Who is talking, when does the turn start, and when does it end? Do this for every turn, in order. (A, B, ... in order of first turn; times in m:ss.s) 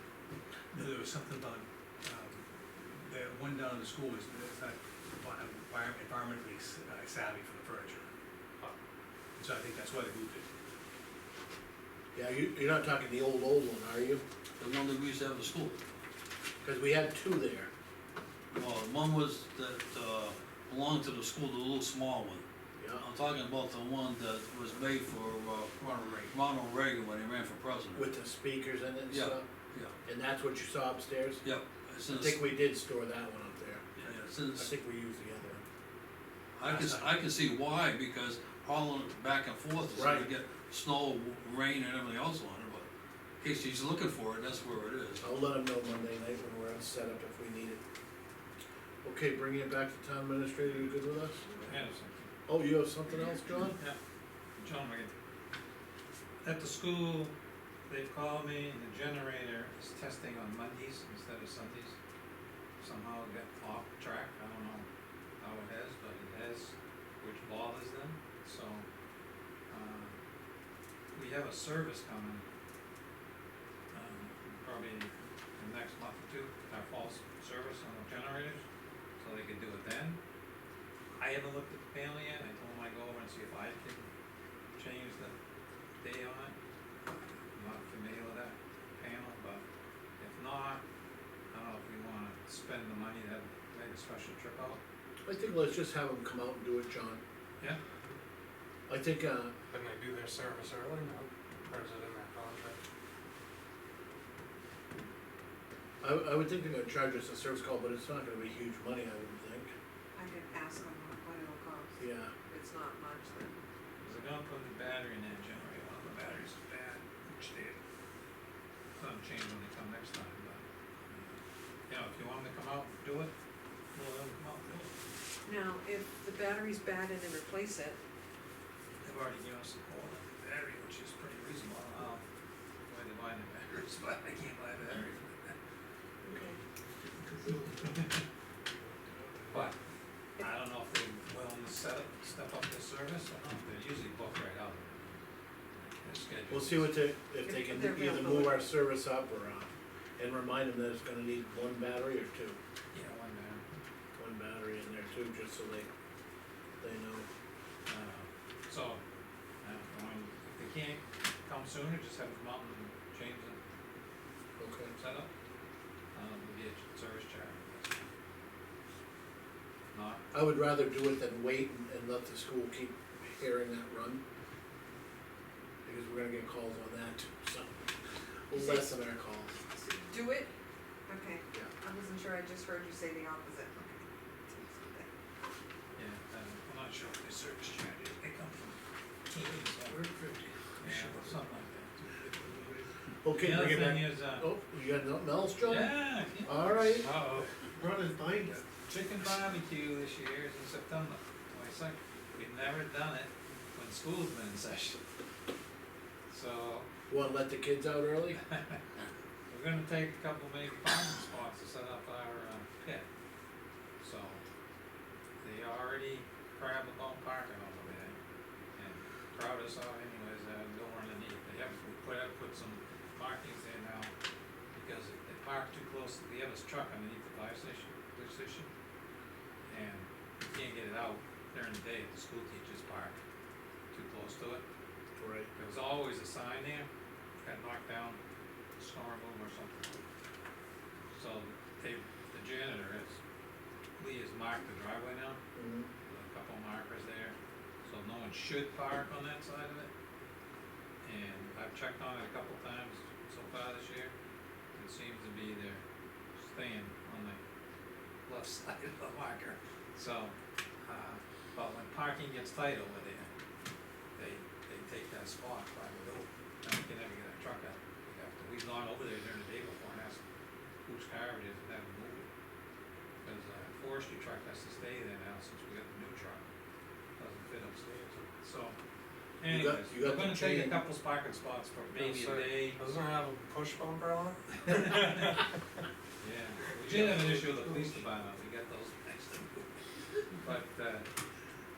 0:00.7-0:02.4 A
0:03.0-0:08.1 A
0:09.4-0:10.4 A
0:12.1-0:14.2 B
0:14.6-0:15.8 C
0:16.6-0:17.7 B
0:18.5-0:22.4 C
0:22.8-0:23.0 B
0:23.0-0:28.2 C
0:28.0-0:29.4 B
0:29.1-0:29.9 C
0:30.0-0:31.4 B
0:31.4-0:32.4 C
0:32.1-0:34.0 B
0:34.0-0:34.7 C
0:34.5-0:35.6 B
0:36.6-0:42.9 C
0:36.6-0:37.0 A
0:39.9-0:40.3 B
0:43.4-0:45.2 C
0:45.2-0:47.8 B
0:49.0-0:51.5 B
0:51.6-0:52.3 D
0:52.5-0:53.8 B
0:54.6-0:55.1 D
0:56.4-0:57.3 D
0:57.9-1:02.0 D
1:02.8-1:04.8 D
1:05.4-1:08.8 D
1:09.7-1:10.2 D
1:11.1-1:12.4 D
1:13.9-1:18.6 D
1:19.2-1:20.2 D
1:21.2-1:24.1 D
1:24.8-1:25.3 D
1:26.0-1:26.5 D
1:27.1-1:29.6 D
1:30.2-1:30.8 D
1:31.5-1:34.8 D
1:35.2-1:37.2 B
1:38.9-1:39.5 B
1:39.7-1:42.8 E
1:46.0-1:49.7 B
1:50.1-1:53.6 F
1:52.0-1:52.3 B
1:54.0-1:57.8 D
1:59.0-2:01.4 D
2:01.9-2:03.3 D
2:03.9-2:04.9 D
2:05.4-2:08.0 F
2:09.0-2:12.2 D
2:12.9-2:15.6 D
2:16.2-2:16.6 F
2:17.8-2:18.0 D
2:20.4-2:25.1 D
2:26.0-2:27.0 D
2:26.5-2:32.6 B
2:27.4-2:28.7 F
2:32.9-2:33.6 D
2:34.2-2:35.9 B
2:36.8-2:37.3 B
2:37.8-2:39.0 D
2:39.6-2:43.6 D
2:44.6-2:44.9 B
2:45.0-2:45.3 D
2:46.1-2:48.0 D
2:49.9-2:50.2 D
2:50.3-2:54.2 B
2:55.8-2:57.8 B
2:58.5-2:59.5 B
2:58.5-2:58.9 F
2:59.7-3:00.5 F
3:01.1-3:05.1 F
3:06.0-3:08.8 D
3:09.3-3:10.0 D
3:10.8-3:12.2 D
3:13.2-3:17.1 B
3:13.4-3:14.5 D
3:15.6-3:17.5 D
3:17.7-3:18.6 B
3:18.8-3:25.0 D
3:26.3-3:26.9 D
3:27.1-3:28.4 B
3:28.5-3:28.8 D
3:29.5-3:33.0 D
3:34.0-3:34.4 D
3:35.4-3:38.2 D
3:38.8-3:44.1 D
3:44.7-3:48.7 D
3:49.7-3:53.2 D
3:53.9-3:54.6 D
3:55.2-3:55.5 B
3:55.6-3:56.9 D
3:57.4-3:58.2 D
3:58.8-4:00.0 D
4:01.1-4:03.2 D
4:04.0-4:05.4 D
4:05.5-4:05.9 B
4:06.0-4:09.9 D
4:11.0-4:14.1 D
4:14.8-4:15.8 D
4:16.4-4:17.4 D
4:18.2-4:23.3 D
4:24.2-4:30.2 D
4:30.8-4:32.3 D
4:33.2-4:36.4 D
4:37.2-4:38.8 D
4:39.4-4:42.8 D
4:39.5-4:40.8 B
4:41.9-4:45.3 E
4:44.7-4:45.4 D
4:46.2-4:51.1 D
4:46.9-4:47.9 E